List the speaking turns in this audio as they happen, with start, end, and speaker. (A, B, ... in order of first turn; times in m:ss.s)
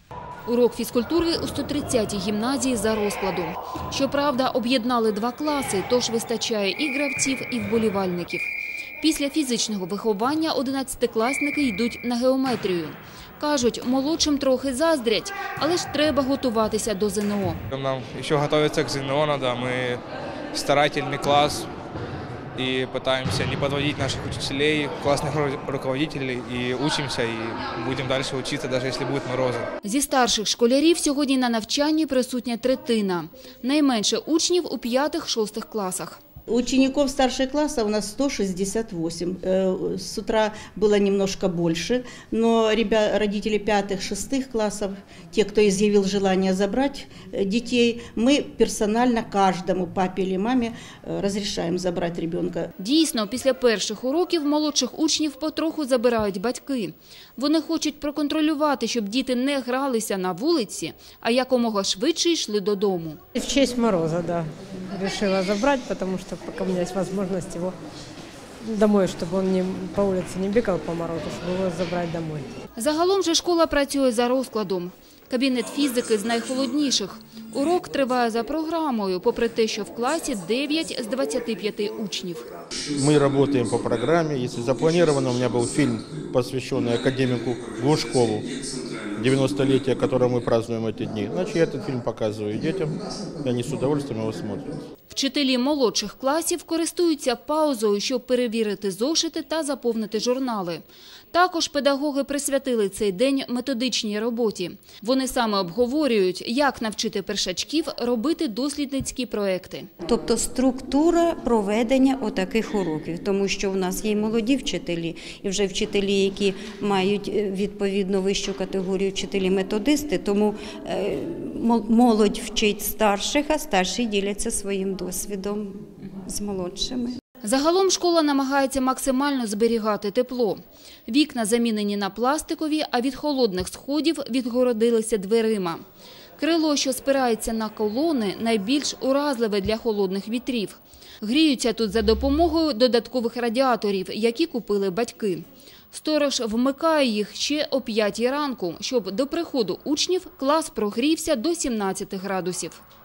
0:00.5-0:08.5 A
0:09.0-0:17.6 A
0:17.7-0:20.0 B
0:20.5-0:21.7 B
0:22.6-0:29.7 B
0:29.8-0:36.2 A
0:36.5-0:52.7 C
0:52.8-1:03.2 A
1:03.4-1:07.8 D
1:08.6-1:12.5 D
1:12.8-1:22.5 A
1:23.0-1:28.5 E
1:29.2-1:34.7 E
1:35.1-1:49.9 A
1:50.0-2:07.2 F
2:07.4-2:15.8 A
2:16.4-2:32.8 A